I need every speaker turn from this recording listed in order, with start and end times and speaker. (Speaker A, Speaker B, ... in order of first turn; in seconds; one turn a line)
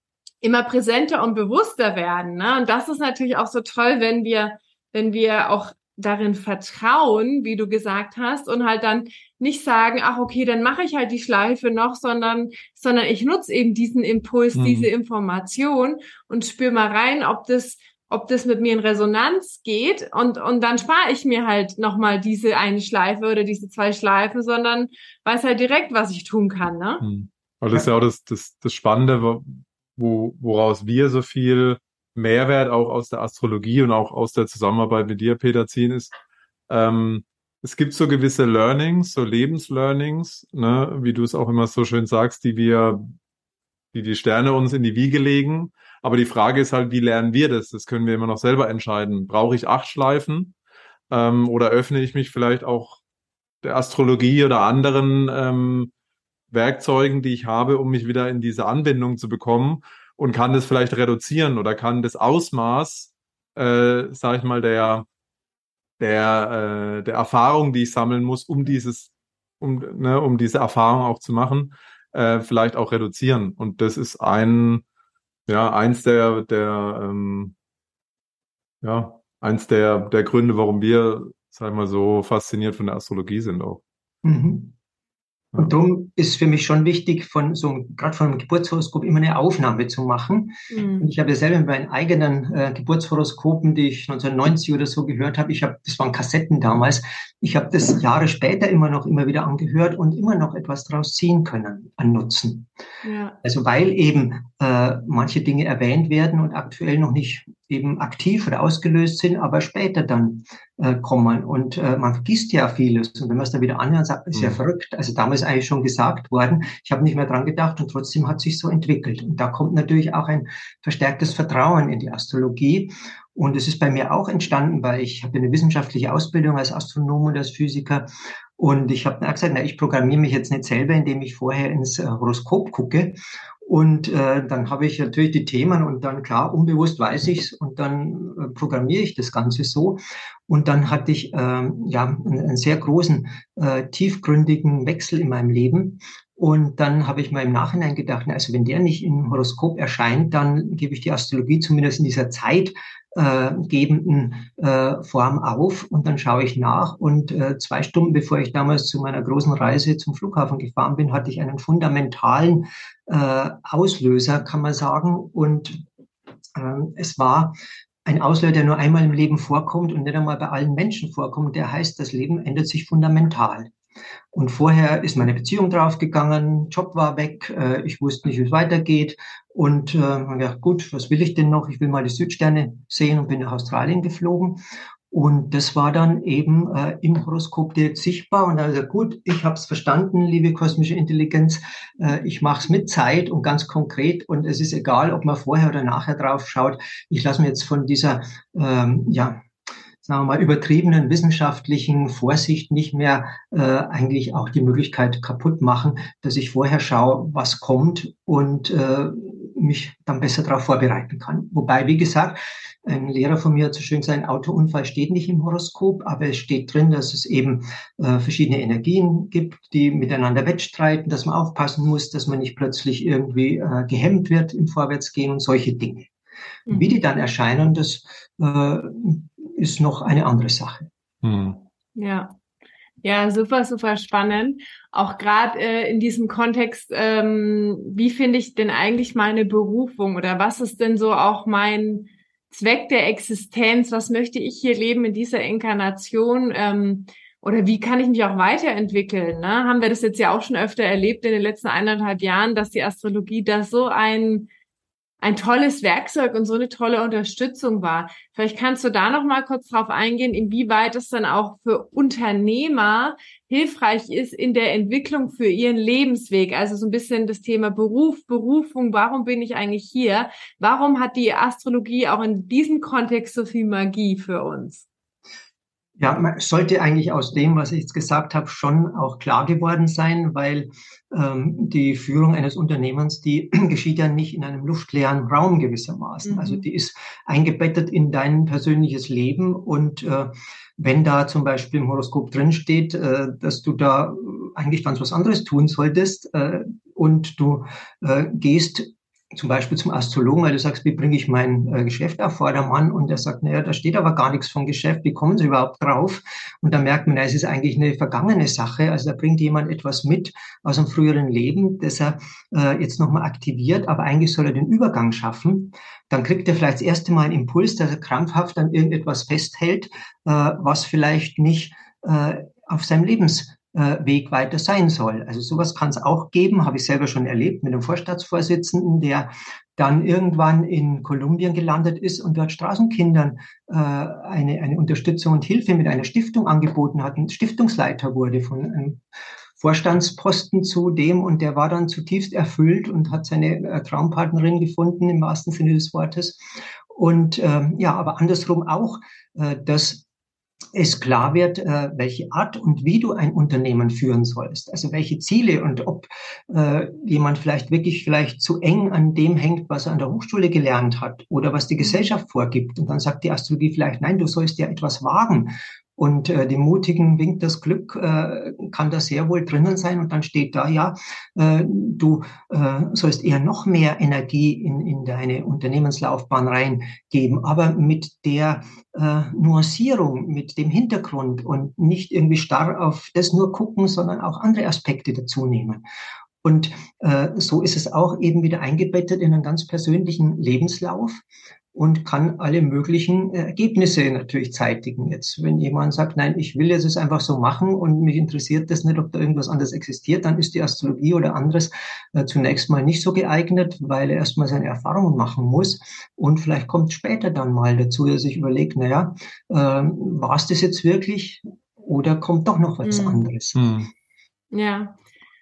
Speaker A: 0.4-27.0
Speaker B: 14.6-14.9
Speaker B: 27.0-36.1
Speaker B: 36.7-43.1
Speaker B: 43.9-50.5
Speaker B: 51.1-53.0
Speaker B: 53.6-55.9
Speaker B: 56.5-65.1
Speaker B: 66.0-74.8
Speaker B: 75.5-77.5
Speaker B: 78.8-83.8
Speaker C: 84.2-84.8
Speaker C: 85.6-102.7
Speaker A: 90.7-91.1
Speaker A: 103.0-103.4
Speaker C: 103.4-128.1
Speaker B: 114.3-114.6
Speaker C: 128.6-165.8
Speaker C: 166.6-173.7
Speaker C: 174.3-199.4
Speaker C: 200.0-226.1
Speaker A: 226.7-227.0
Speaker C: 226.7-230.9
Speaker B: 231.2-231.6
Speaker A: 232.0-232.3
Speaker A: 233.0-254.5
Speaker A: 255.2-274.9
Speaker C: 276.0-339.0
Speaker A: 286.2-286.6
Speaker C: 339.6-346.4
Speaker C: 346.9-350.1
Speaker C: 350.8-385.8
Speaker A: 361.8-362.1
Speaker C: 386.4-391.2
Speaker C: 391.7-413.6
Speaker A: 412.8-413.2
Speaker B: 413.6-413.9
Speaker A: 414.5-415.0